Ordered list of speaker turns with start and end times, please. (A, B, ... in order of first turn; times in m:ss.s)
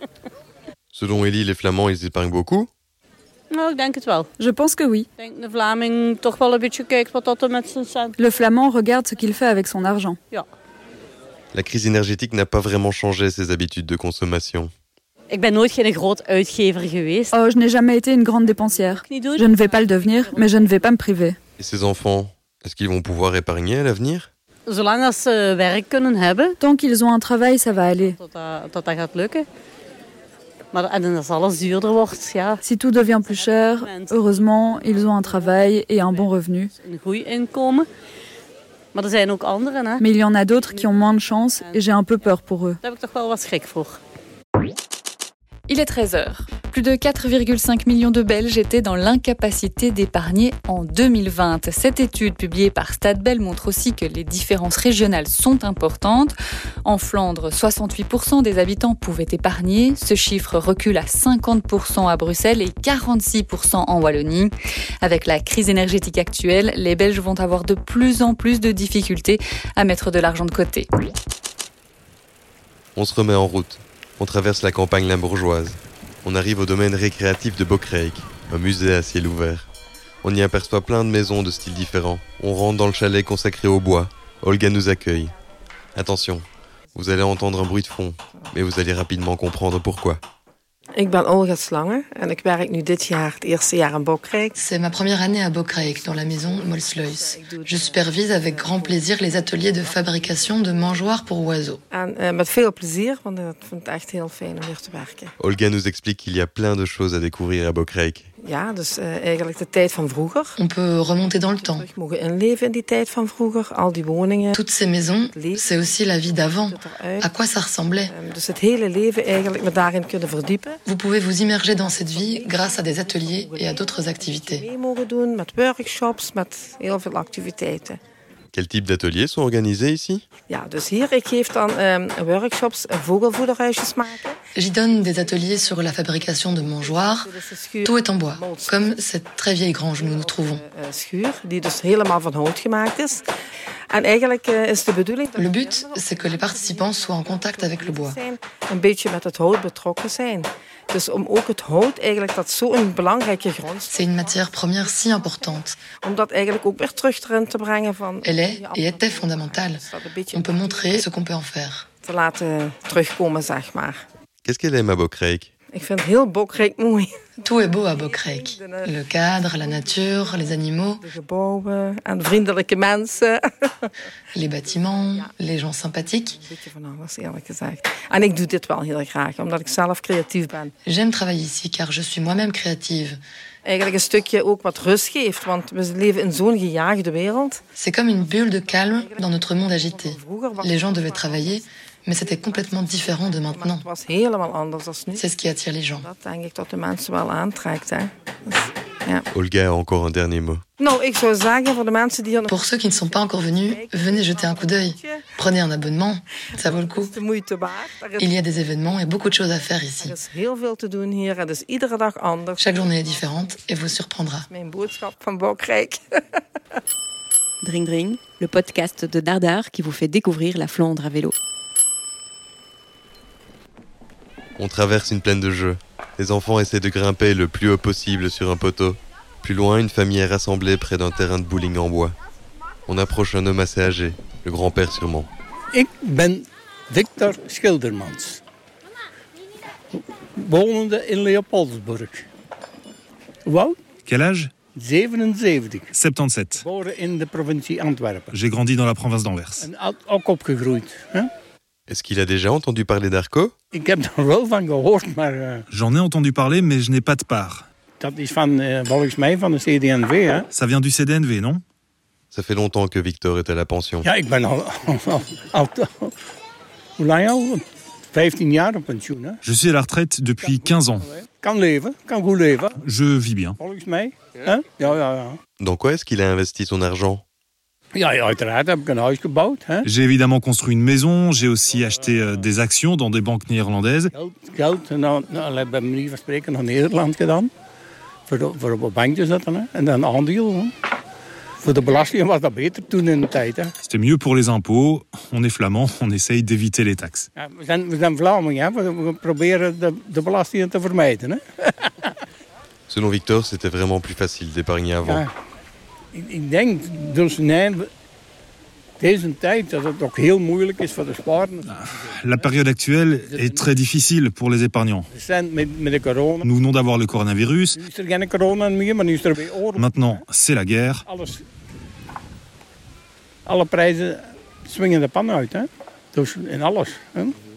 0:00.9-0:02.7 A
0:03.5-0:04.3 B
0:04.4-0:05.1 C
0:05.2-0:08.2 B
0:08.2-0:10.2 C
0:11.5-0:14.7 A
0:15.3-0:17.4 B
0:17.3-0:21.4 C
0:18.5-0:20.9 B
0:21.6-0:24.3 A
0:24.7-0:26.6 B
0:26.6-0:28.2 C
0:27.8-0:29.5 B
0:30.7-0:32.6 B
0:32.6-0:36.7 C
0:33.2-0:37.9 B
0:38.9-0:40.1 B
0:40.0-0:42.8 C
0:40.7-0:41.9 B
0:42.8-0:44.0 B
0:45.7-1:10.9 D
1:13.0-1:19.7 A
1:20.2-1:25.3 A
1:26.0-1:30.2 A
1:31.0-1:34.6 E
1:34.6-1:41.8 F
1:35.7-1:41.1 E
1:41.9-1:45.3 E
1:45.4-1:48.3 A
1:48.4-1:50.6 E
1:50.6-1:51.9 F
1:51.2-1:54.5 E
1:54.5-1:58.1 F
1:55.3-1:57.3 E
1:58.1-2:00.8 E
2:00.9-2:04.7 F
2:01.6-2:08.0 E
2:08.5-2:10.2 A
2:10.5-2:14.4 E
2:14.6-2:17.3 F
2:15.0-2:19.0 E
2:17.8-2:20.6 F
2:19.9-2:23.3 E
2:23.9-2:41.1 E
2:25.4-2:28.2 F
2:33.9-2:35.8 F
2:38.2-2:41.9 F
2:42.0-2:44.0 E
2:44.4-2:45.5 A
2:45.7-2:53.9 E
2:47.4-2:51.1 F
2:54.4-2:56.4 F
2:54.6-2:55.3 E
2:56.3-3:00.7 E
3:00.8-3:03.2 F
3:03.6-3:07.6 E
3:07.8-3:13.9 F
3:08.2-3:15.3 E
3:15.2-3:16.1 F
3:16.0-3:19.3 E
3:19.3-3:20.6 A
3:20.8-3:25.3 E
3:22.5-3:27.2 F
3:26.6-3:28.4 E
3:28.2-3:30.2 F
3:30.0-3:33.6 E
3:32.6-3:34.5 F
3:34.5-3:36.0 E
3:37.6-3:41.4 G
3:44.6-3:52.2 A
3:52.9-3:55.3 A
3:55.7-3:58.4 H
4:00.4-4:02.2 H
4:03.5-4:03.8 H
4:04.0-4:04.5 I
4:04.7-4:05.9 H
4:05.9-4:06.6 I
4:06.6-4:08.3 H
4:08.3-4:09.7 I
4:09.6-4:11.3 H
4:11.9-4:13.5 A
4:13.7-4:15.6 H
4:15.7-4:17.7 I
4:18.0-4:20.5 H
4:20.5-4:21.6 I
4:22.3-4:24.1 A
4:24.0-4:26.1 H
4:27.0-4:29.4 H
4:29.4-4:31.1 I
4:30.4-4:32.8 H
4:32.8-4:33.6 I
4:33.6-4:35.4 H
4:35.6-4:37.2 A
4:38.0-4:39.9 H
4:39.8-4:44.1 I
4:44.1-4:47.5 H
4:48.3-4:50.7 H
4:51.6-4:53.7 H
4:53.8-4:57.3 I
4:57.4-5:02.1 H
5:02.9-5:05.2 A
5:05.0-5:05.3 H
5:06.1-5:07.9 H
5:09.0-5:12.5 H
5:11.7-5:15.1 I
5:13.3-5:13.7 H
5:15.1-5:16.5 H
5:16.4-5:17.8 I
5:17.8-5:20.2 H
5:19.8-5:21.0 I
5:21.1-5:21.4 H
5:23.5-5:27.4 H